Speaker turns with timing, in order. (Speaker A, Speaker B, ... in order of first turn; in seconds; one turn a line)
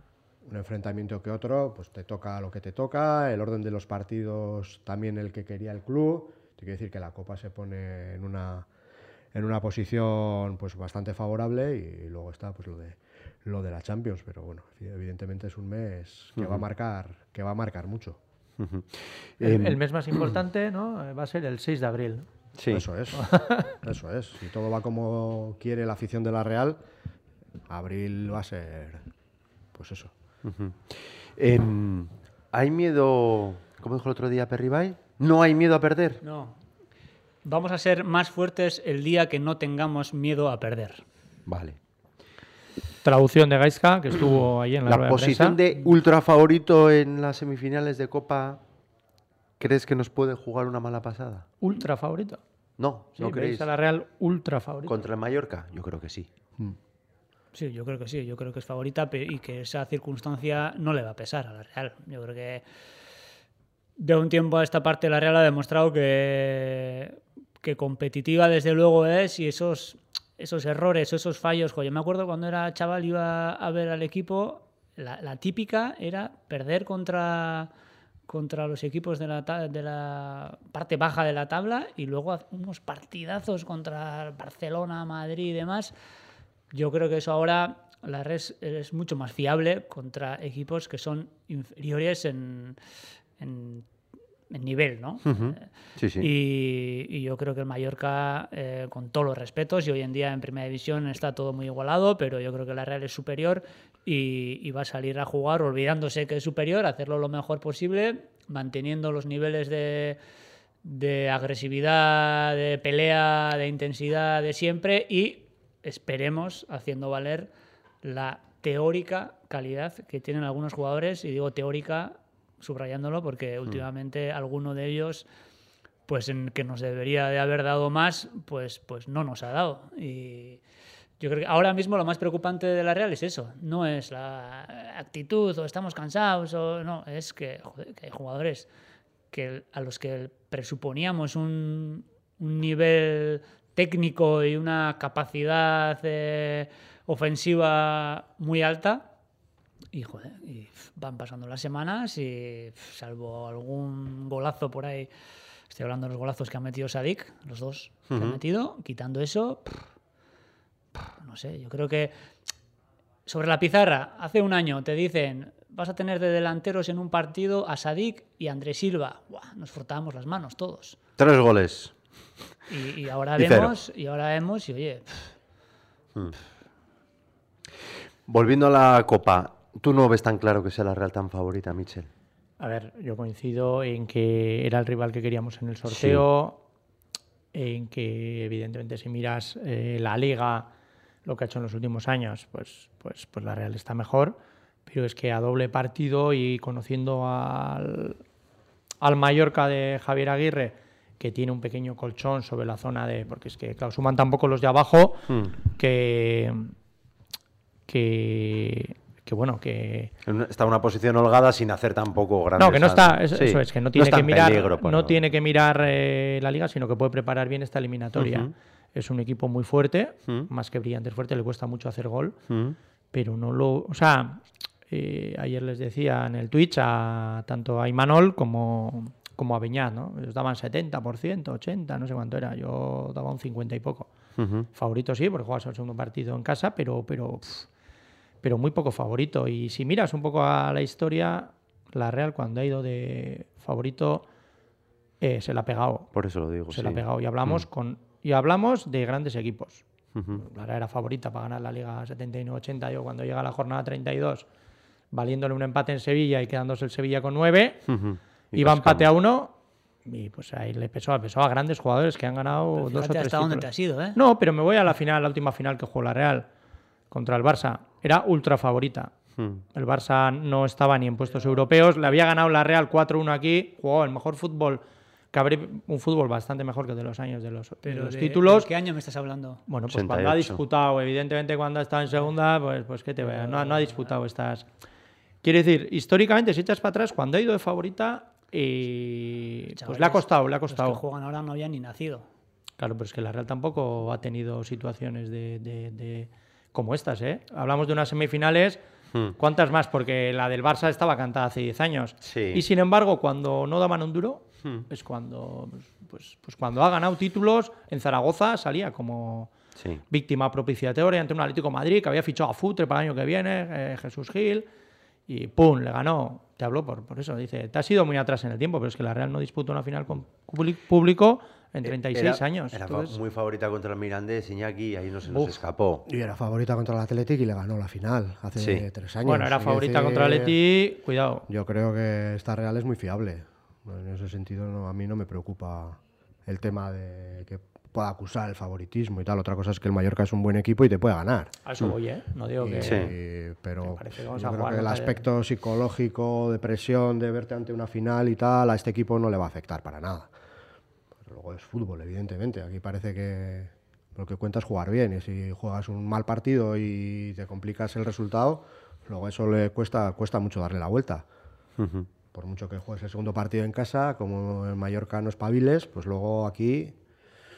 Speaker A: 0.4-8.7
Speaker A: 9.3-18.2
Speaker B: 16.4-16.6
Speaker B: 18.6-20.3
Speaker C: 19.4-22.3
Speaker B: 22.6-22.9
Speaker A: 22.7-26.8
Speaker C: 23.2-23.7
Speaker A: 27.7-29.0
Speaker A: 29.7-30.1
Speaker B: 30.4-36.2
Speaker D: 36.2-36.5
Speaker D: 37.4-41.0
Speaker B: 41.5-41.8
Speaker C: 43.0-45.6
Speaker B: 44.9-48.6
Speaker B: 49.6-51.5
Speaker C: 51.6-52.4
Speaker B: 52.8-53.7
Speaker C: 53.2-55.0
Speaker B: 54.8-56.3
Speaker D: 57.5-62.6
Speaker D: 64.0-77.7
Speaker D: 78.3-85.9
Speaker D: 86.7-92.8
Speaker D: 93.4-93.9
Speaker D: 94.5-110.2
Speaker B: 95.2-96.3
Speaker D: 110.8-117.5
Speaker D: 118.0-125.2
Speaker D: 126.1-130.6
Speaker D: 131.2-138.7
Speaker D: 139.3-149.1
Speaker D: 149.9-155.1
Speaker D: 155.7-159.9
Speaker B: 158.1-158.4
Speaker D: 161.1-162.1
Speaker D: 163.2-171.0
Speaker B: 171.2-171.9
Speaker D: 172.7-175.3
Speaker B: 173.4-173.7
Speaker B: 178.3-182.1
Speaker C: 182.6-186.6
Speaker B: 185.9-186.2
Speaker C: 187.5-190.7
Speaker C: 191.2-198.2
Speaker C: 199.0-206.7
Speaker B: 205.3-205.5
Speaker C: 207.9-210.1
Speaker B: 210.2-215.2
Speaker C: 212.6-222.4
Speaker B: 218.2-218.5
Speaker B: 222.5-222.8
Speaker C: 223.1-234.1
Speaker B: 234.4-234.7
Speaker C: 234.7-237.7
Speaker C: 238.4-244.3
Speaker C: 245.2-246.1
Speaker B: 246.1-247.6
Speaker C: 246.7-254.4
Speaker B: 250.1-250.4
Speaker C: 255.1-257.9
Speaker B: 257.9-259.1
Speaker C: 258.5-266.5
Speaker D: 262.8-264.2
Speaker C: 267.1-269.1
Speaker C: 269.7-278.7
Speaker D: 277.8-279.6
Speaker C: 279.7-284.7
Speaker B: 279.9-280.6
Speaker D: 283.2-284.1
Speaker C: 285.4-291.0
Speaker D: 289.8-292.3
Speaker C: 292.8-298.8
Speaker C: 299.3-309.5
Speaker B: 302.2-302.6
Speaker B: 309.8-310.0
Speaker C: 310.1-314.7
Speaker C: 315.3-323.2
Speaker B: 321.8-326.1
Speaker A: 326.1-330.6
Speaker B: 328.6-328.9
Speaker C: 329.2-331.5
Speaker A: 331.5-341.5
Speaker C: 341.6-343.2
Speaker A: 342.6-350.3
Speaker B: 342.8-343.1
Speaker C: 343.8-345.2
Speaker A: 351.2-361.2
Speaker B: 361.8-362.1
Speaker A: 362.3-366.9